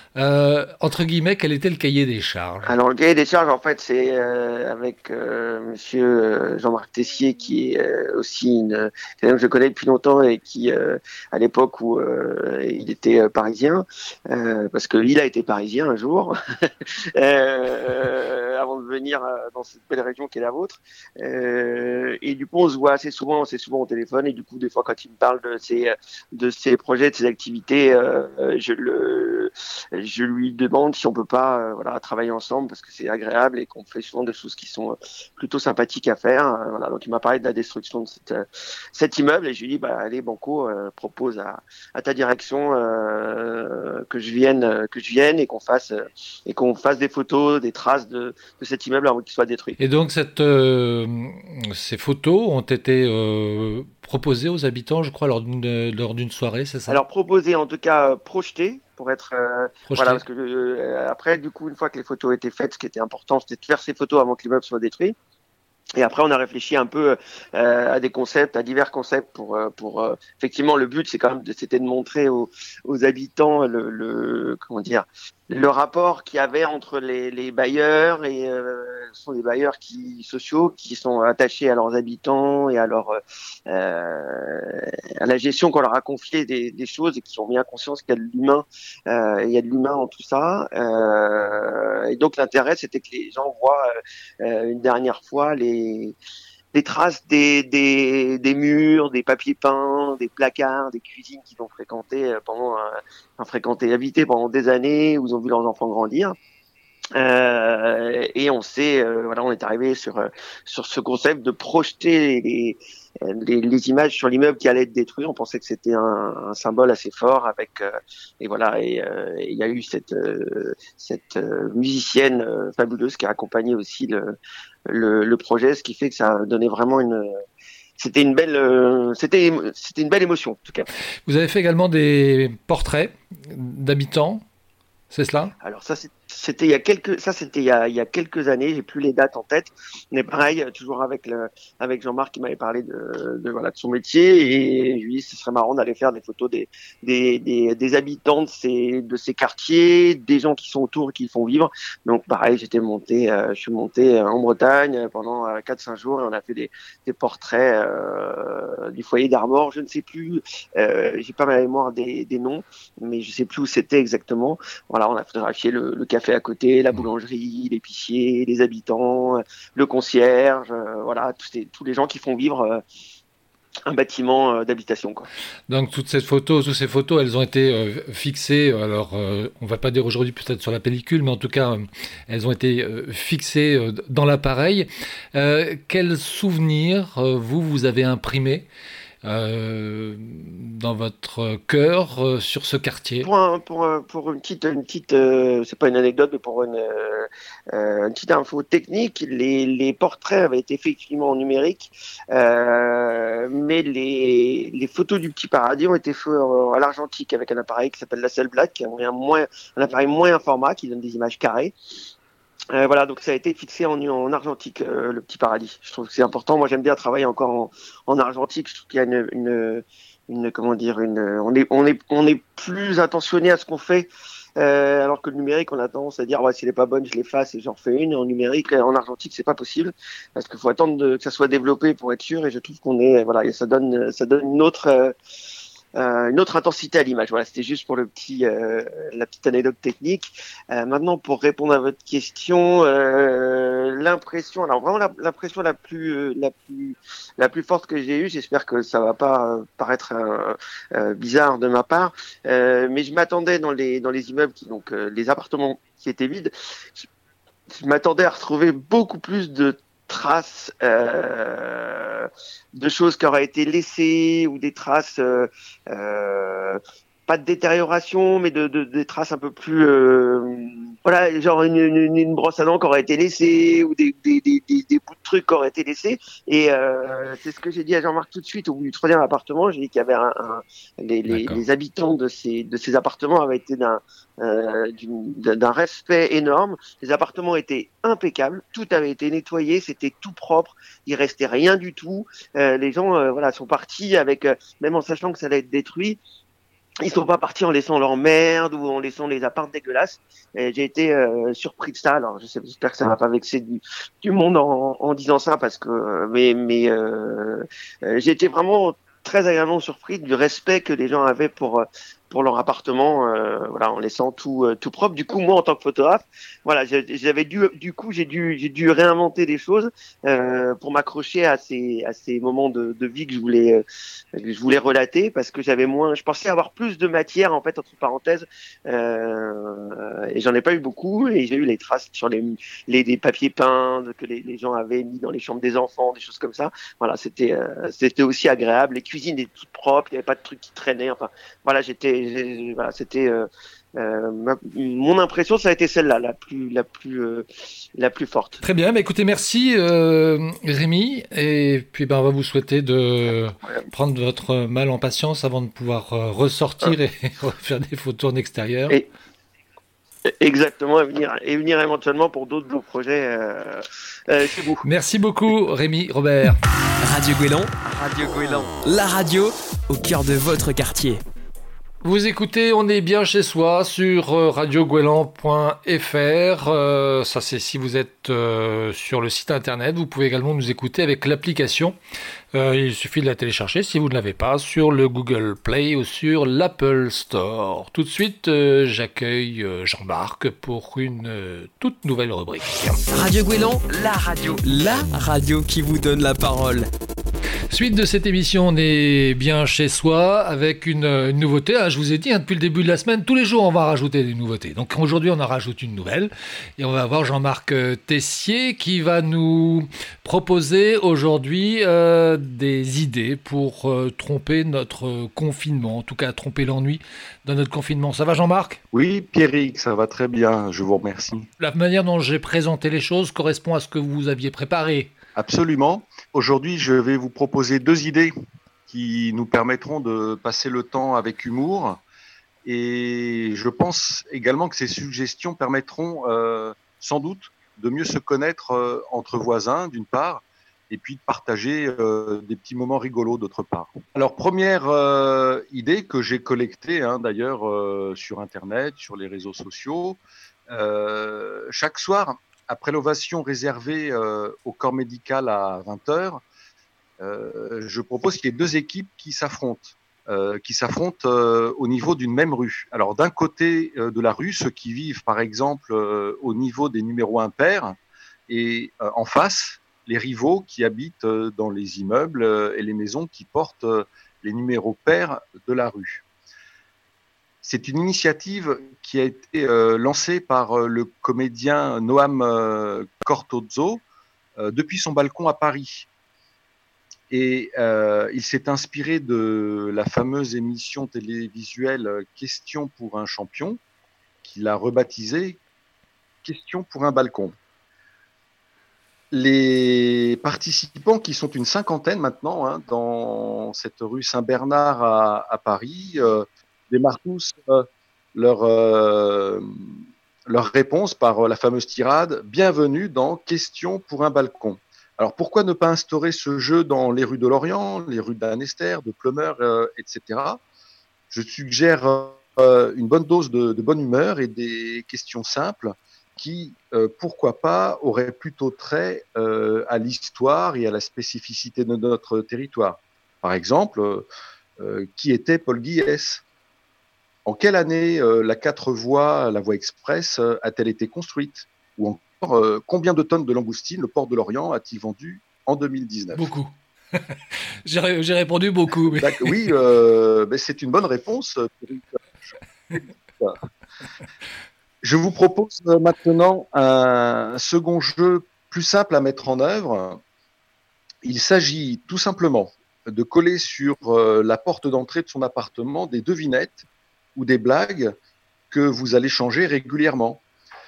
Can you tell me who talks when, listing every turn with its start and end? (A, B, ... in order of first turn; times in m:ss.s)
0:00.2-0:02.7 A
0:02.6-0:49.8 B
0:49.8-0:57.0 A
0:56.9-1:05.2 B
0:59.9-1:00.2 A
1:06.0-1:36.2 B
1:36.7-1:46.4 B
1:47.1-2:04.3 B
2:04.9-2:07.4 B
2:08.0-2:10.9 B
2:11.2-2:14.4 A
2:15.1-2:15.5 A
2:15.6-2:52.8 B
2:53.9-2:55.3 B
2:55.7-3:08.7 A
3:09.2-3:13.3 A
3:13.2-3:31.7 B
3:32.7-3:55.1 B
3:56.0-4:17.1 B
4:17.7-4:56.2 B
4:57.0-5:23.8 B
5:24.3-5:47.4 B
5:48.0-5:48.6 B
5:48.6-5:59.0 A
6:00.4-6:04.8 B
6:04.8-6:06.6 A
6:07.0-6:11.2 C
6:12.0-6:22.0 A
6:22.5-6:33.0 A
6:33.1-6:36.9 C
6:37.7-6:58.8 A
6:58.9-7:01.5 D
7:01.6-7:05.1 A
7:05.4-7:08.3 D
7:08.9-7:12.0 D
7:12.6-7:36.4 D
7:37.2-7:48.0 D
7:48.5-7:56.2 D
7:57.6-8:04.0 D
8:04.6-8:06.1 D
8:07.3-8:13.8 D
8:14.4-8:15.6 D
8:16.4-8:17.6 D
8:19.3-8:29.9 D
8:30.5-8:40.6 D
8:41.3-8:54.3 D
8:54.8-8:56.4 D
8:57.4-9:06.5 D
9:06.4-9:09.7 A
9:09.0-9:12.6 D
9:15.0-9:20.2 D
9:21.2-9:28.1 D
9:28.7-9:30.4 D